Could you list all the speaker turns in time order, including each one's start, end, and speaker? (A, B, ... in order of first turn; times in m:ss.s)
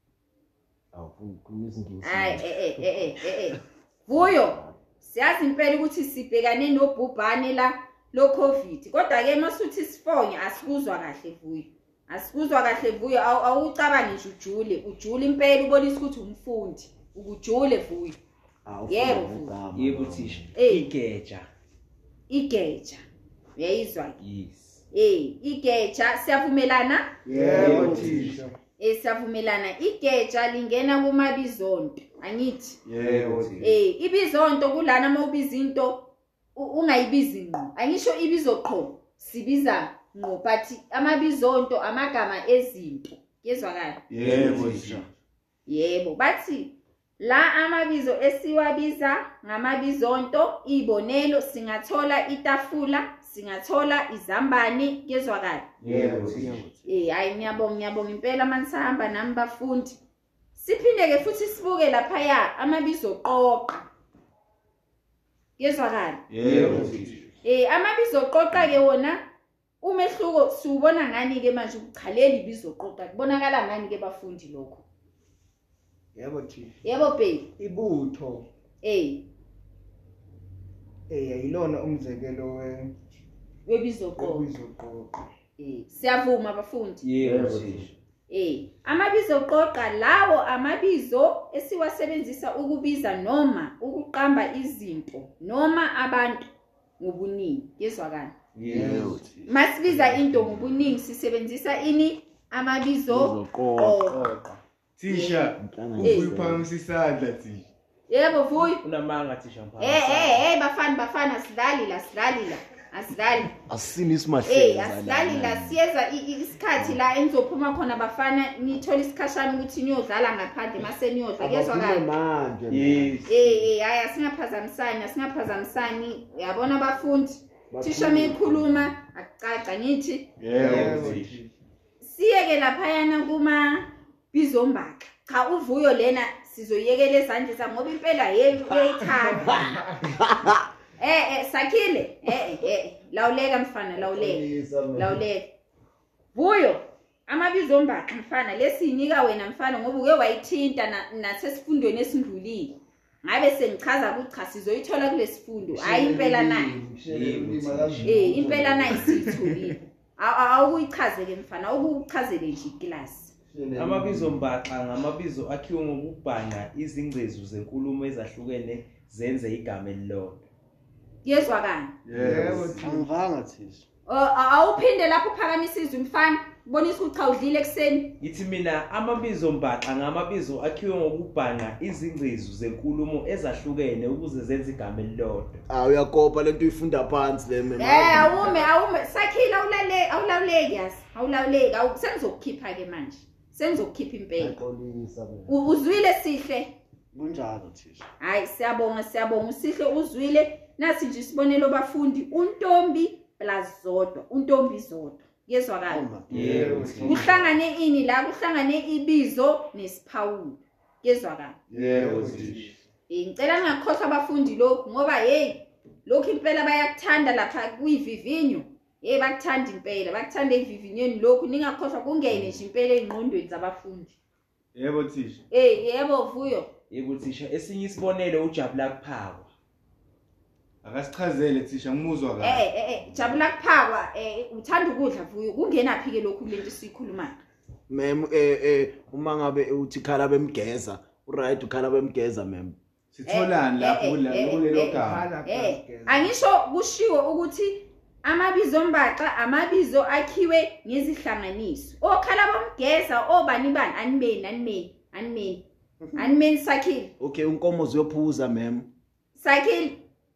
0:00.9-0:03.4 A
0:02.0-0:18.2 B
0:04.1-0:04.8 A
0:18.6-0:20.5 A
0:18.9-0:19.5 B
0:19.7-0:21.5 C
0:20.5-0:20.9 B
0:22.3-0:23.0 B
0:23.6-0:24.2 B
0:24.2-0:24.8 C
0:24.9-0:27.2 B
0:27.2-0:28.4 D
0:27.3-0:28.6 E
0:27.5-0:28.4 C
0:27.7-0:28.1 F
0:28.8-0:32.8 B
0:32.8-0:33.7 D
0:33.0-0:33.6 C
0:33.6-0:44.1 B
0:44.1-0:45.0 D
0:44.2-0:45.1 F
0:45.7-0:55.9 B
0:55.8-0:56.5 C
0:55.8-0:56.5 D
0:56.0-0:57.0 F
0:56.8-1:00.0 B
1:00.5-1:03.8 B
1:05.6-1:06.3 B
1:06.3-1:07.1 D
1:06.4-1:07.2 C
1:06.6-1:07.0 A
1:07.4-1:09.2 B
1:09.8-1:14.8 B
1:16.1-1:16.8 E
1:16.8-1:17.5 B
1:17.6-1:18.5 E
1:18.8-1:19.3 B
1:21.1-1:22.9 E
1:23.6-1:24.5 B
1:24.2-1:25.2 E
1:25.6-1:27.1 B
1:27.0-1:27.9 C
1:27.2-1:27.6 A
1:28.3-1:36.4 B
1:37.0-1:38.4 B
1:38.5-1:39.1 C
1:38.7-1:39.3 A
1:38.7-1:39.5 F
1:39.4-1:44.3 B
1:43.1-1:44.0 A
1:44.1-1:44.4 D
1:45.0-1:47.7 D
1:45.1-1:46.3 B
1:45.6-1:46.6 A
1:48.1-1:48.8 B
1:48.5-1:50.5 C
1:49.8-1:53.5 B
1:53.6-1:55.8 A
1:54.4-2:02.1 B
1:56.7-1:57.0 A
2:01.4-2:03.2 A
2:02.7-2:03.4 C
2:03.3-2:10.4 B
2:07.7-2:08.9 A
2:10.4-2:11.1 D
2:10.6-2:11.6 E
2:10.6-2:11.3 C
2:12.0-2:19.7 B
2:18.7-2:20.6 A
2:19.0-2:20.0 E
2:21.0-2:25.5 B
2:24.0-2:25.2 A
2:26.3-2:36.8 B
2:35.7-2:39.1 A
2:37.1-2:38.3 C
2:38.0-2:43.3 B
2:38.9-2:39.7 E
2:43.5-2:44.5 A
2:43.7-2:50.4 C
2:51.2-2:52.0 B
2:52.0-2:52.8 D
2:52.1-2:53.1 E
2:52.8-2:53.8 F
2:54.1-2:58.2 B
2:58.2-3:05.6 C
3:05.7-3:08.7 A
3:07.8-3:14.6 B
3:14.4-3:15.6 A
3:15.5-3:16.7 B
3:17.1-3:18.1 F
3:18.2-3:26.0 B
3:25.9-3:26.7 F
3:26.3-3:27.3 D
3:26.3-3:27.3 C
3:26.5-3:27.1 E
3:27.0-3:31.6 B
3:31.7-3:32.7 E
3:31.7-3:32.7 D
3:33.1-3:44.2 B
3:44.7-3:45.4 D
3:45.5-3:46.7 B
3:46.9-3:49.5 C
3:50.8-3:52.7 D
3:52.4-3:57.4 B
3:57.9-4:02.8 A
4:03.1-4:05.3 D
4:03.2-4:15.7 B
4:04.8-4:06.4 E
4:16.2-4:17.1 B
4:17.2-4:18.9 A
4:19.3-4:20.0 B